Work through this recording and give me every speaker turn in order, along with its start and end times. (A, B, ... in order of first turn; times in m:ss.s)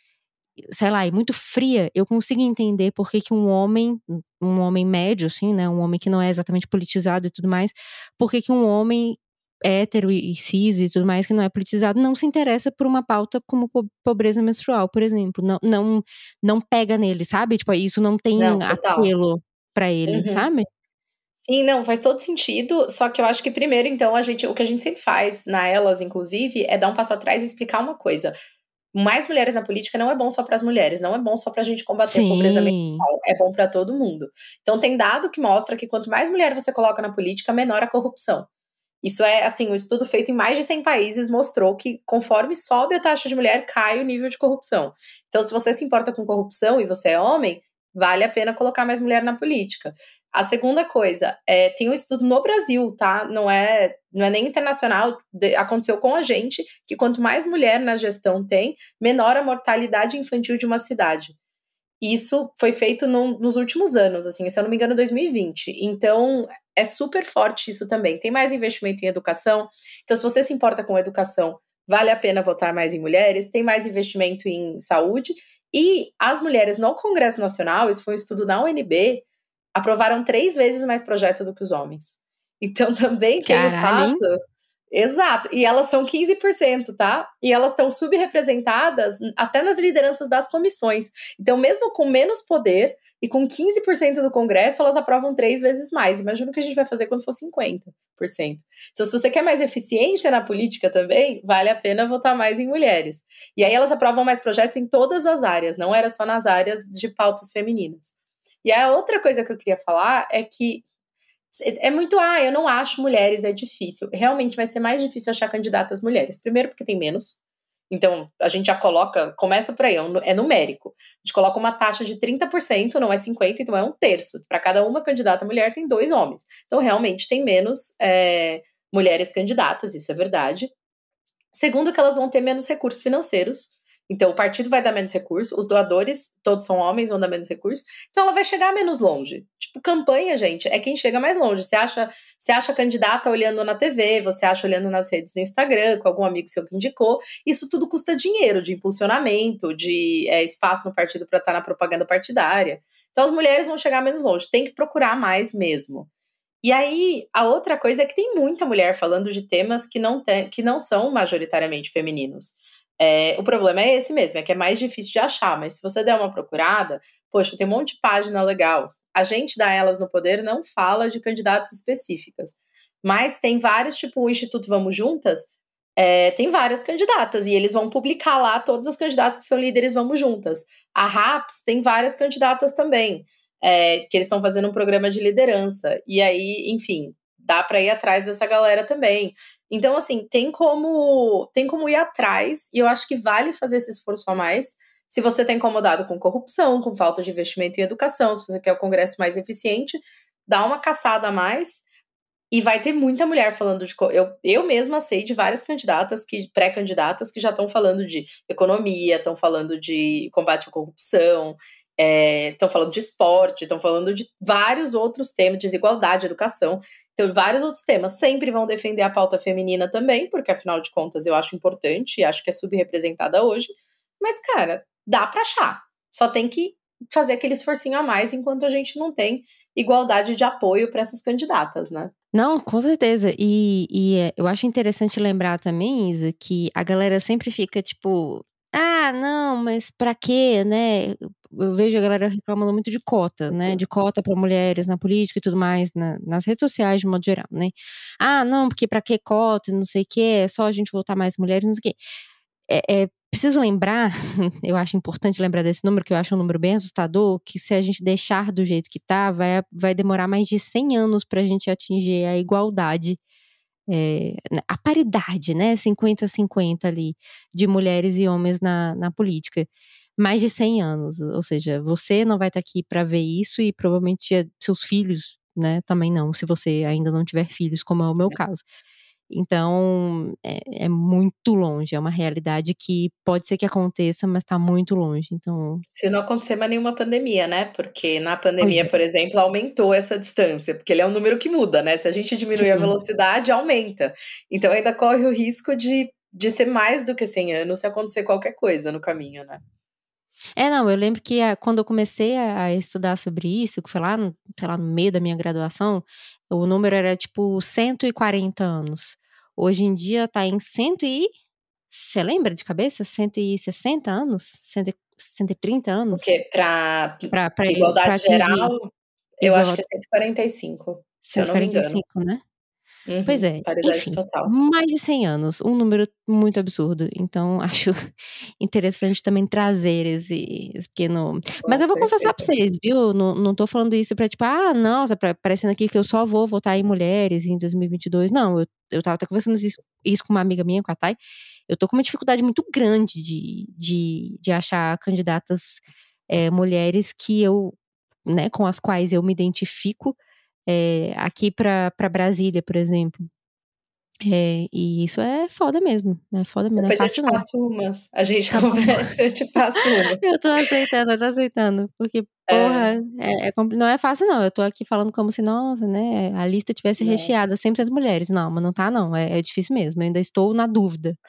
0:00.7-0:20.7 A
0:18.4-0:19.1 B
0:20.1-0:20.5 B
0:21.4-0:28.3 B
0:28.9-0:38.5 B
0:32.0-0:33.1 A
0:39.0-1:01.4 B
1:02.0-1:24.4 B
1:23.5-1:24.2 A
1:24.9-1:50.8 B
1:51.5-1:57.4 B
1:57.9-2:10.7 B
2:11.5-2:36.1 B
2:36.6-3:21.8 B
3:22.5-3:52.1 B
3:52.3-4:12.0 A
4:12.7-4:23.2 A
4:23.9-4:38.6 A
4:39.3-4:45.8 A
4:45.9-4:59.6 B
4:48.6-4:49.0 A
4:52.6-4:53.0 A
5:00.6-5:11.3 A
5:11.9-5:16.3 A
5:16.1-5:18.9 B
5:17.3-5:18.8 A
5:19.4-5:22.0 B
5:19.4-5:19.8 A
5:21.2-5:22.4 A
5:23.1-5:24.5 B
5:23.2-5:28.0 A
5:28.6-5:41.2 A
5:31.6-5:32.5 B
5:41.7-5:53.3 A
5:54.2-5:57.4 A
5:56.8-6:00.2 B
5:58.5-5:59.1 A
6:00.2-6:11.2 A
6:02.5-6:02.9 B
6:07.0-6:07.3 B